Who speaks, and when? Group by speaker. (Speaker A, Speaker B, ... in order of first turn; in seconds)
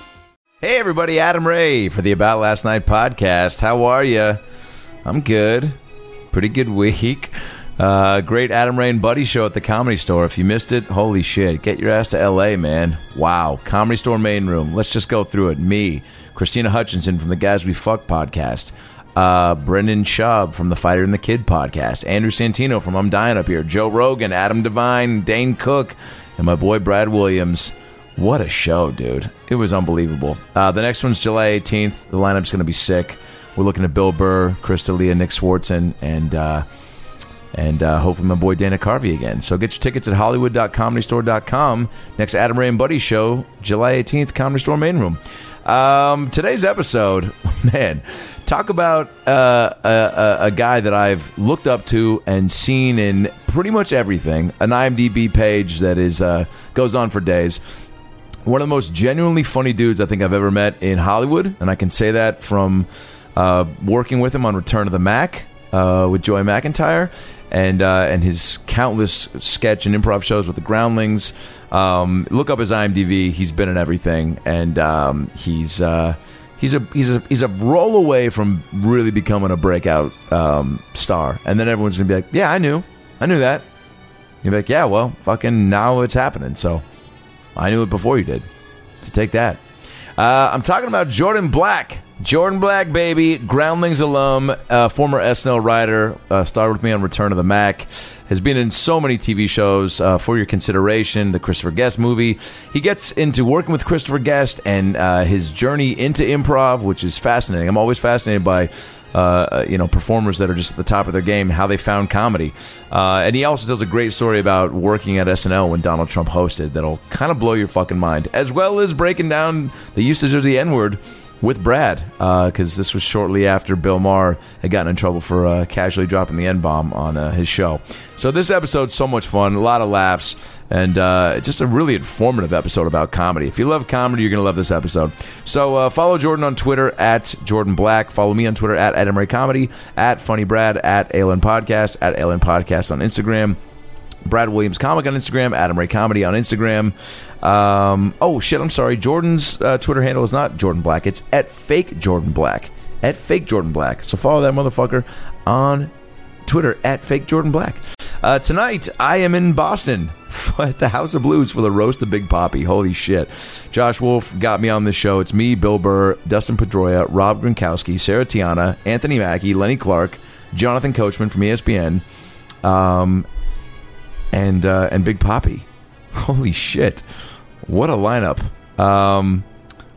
Speaker A: 0.6-4.4, 5.0-5.8, 6.3-36.7, 37.5-57.6, 58.5-83.7, 84.4-86.8, 87.6-88.5, 89.0-89.6, 90.2-143.6, 144.2-155.9, 156.4-172.0, 172.6-173.3, 174.3-177.1, 177.6-179.5